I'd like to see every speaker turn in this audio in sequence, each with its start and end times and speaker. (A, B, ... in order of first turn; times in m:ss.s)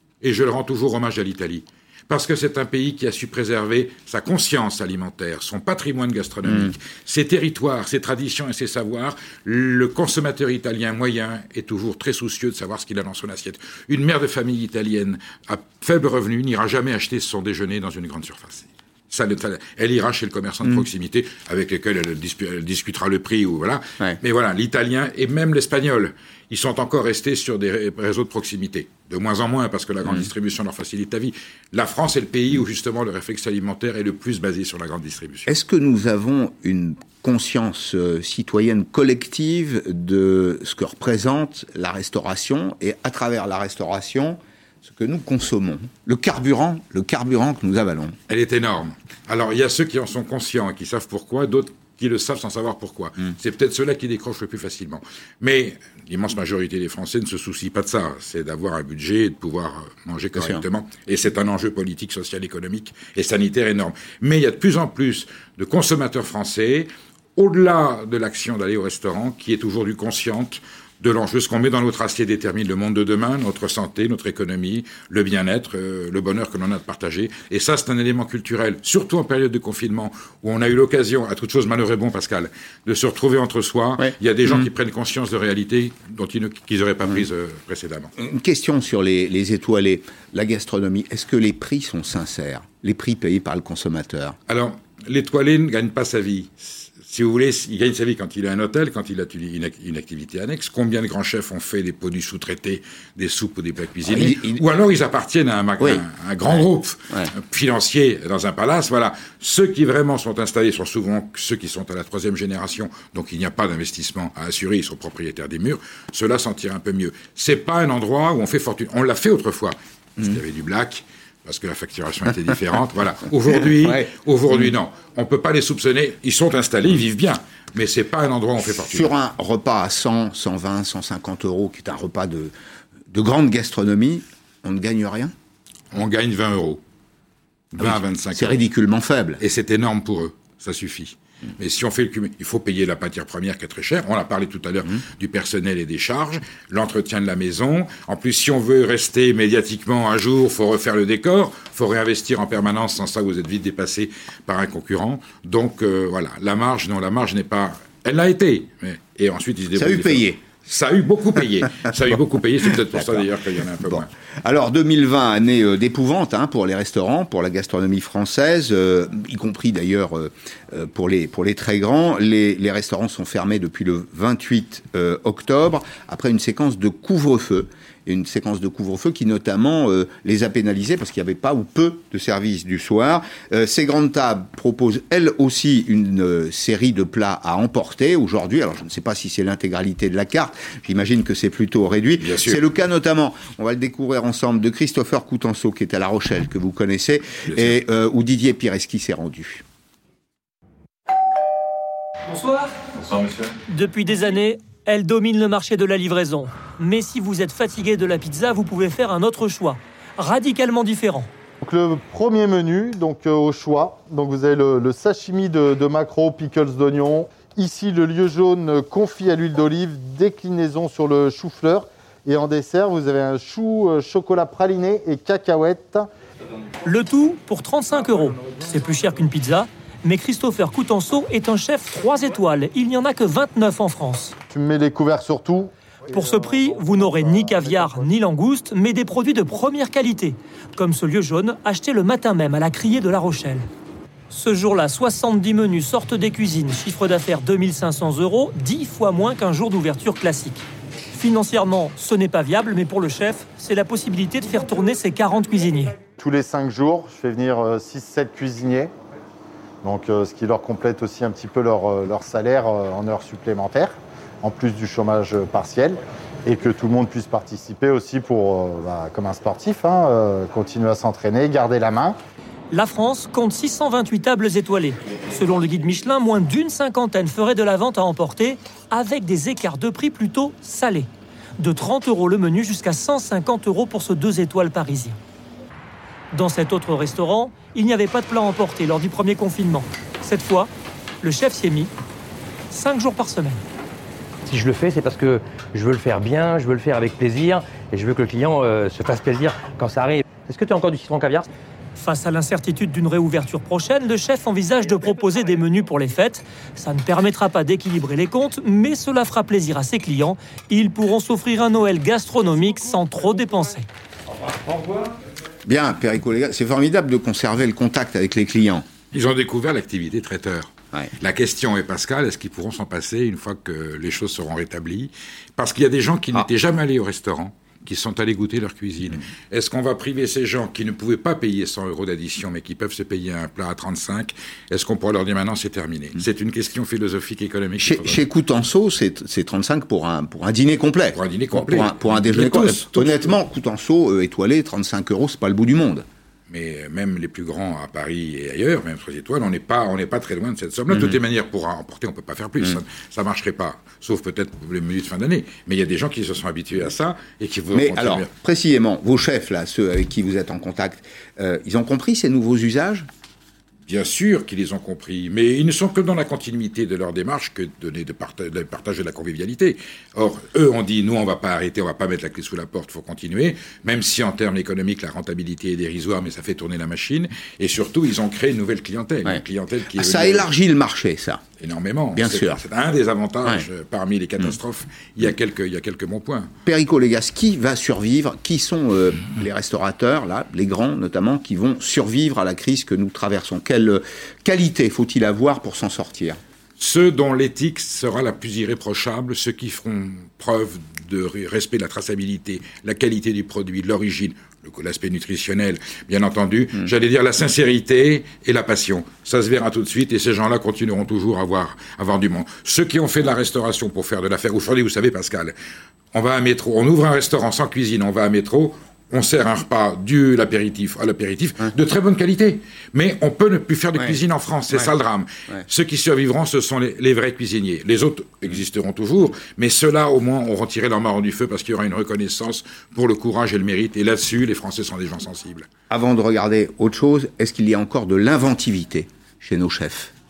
0:00.2-0:35.5 A
0:06.4-0:06.7 B
0:35.4-0:48.2 B
0:48.3-1:28.1 A
1:00.3-1:00.6 B
1:24.0-1:24.7 B
1:28.2-1:34.4 B
1:34.5-2:09.1 A
1:44.0-1:44.6 B
1:45.8-1:47.3 B
2:03.8-2:04.7 B
2:08.9-2:12.5 B
2:13.1-2:15.3 B
2:15.9-2:16.8 A
2:17.7-2:18.6 A
2:17.8-2:19.4 B
2:19.4-2:44.1 A
2:39.7-2:40.4 B
2:42.8-2:43.3 B
2:43.8-3:19.6 B
3:12.2-3:12.6 A
3:17.5-3:17.8 A
3:22.3-3:22.7 C
3:23.7-3:31.3 C
3:31.6-3:46.0 D
3:46.8-3:54.4 C
3:54.5-3:58.0 D
3:56.1-4:03.7 C
4:04.3-4:16.0 C
4:16.2-4:18.9 D
4:19.8-4:32.1 D
4:32.7-4:41.1 C
4:41.6-4:45.2 C
4:46.3-4:50.7 C
4:51.2-4:51.9 C
4:52.7-4:53.6 C
4:54.4-5:01.5 E
5:02.0-5:13.9 C
5:15.6-5:18.8 B
5:19.1-5:38.2 A
5:37.8-5:46.0 B
5:41.1-5:43.3 A
5:46.5-5:58.3 A
5:57.7-6:03.1 B
6:03.9-6:20.4 A
6:19.9-6:21.4 B
6:21.6-6:26.5 A
6:22.1-6:22.6 B
6:26.6-6:36.4 B
6:36.8-6:55.5 A
6:56.1-7:15.7 A
7:15.9-7:20.1 B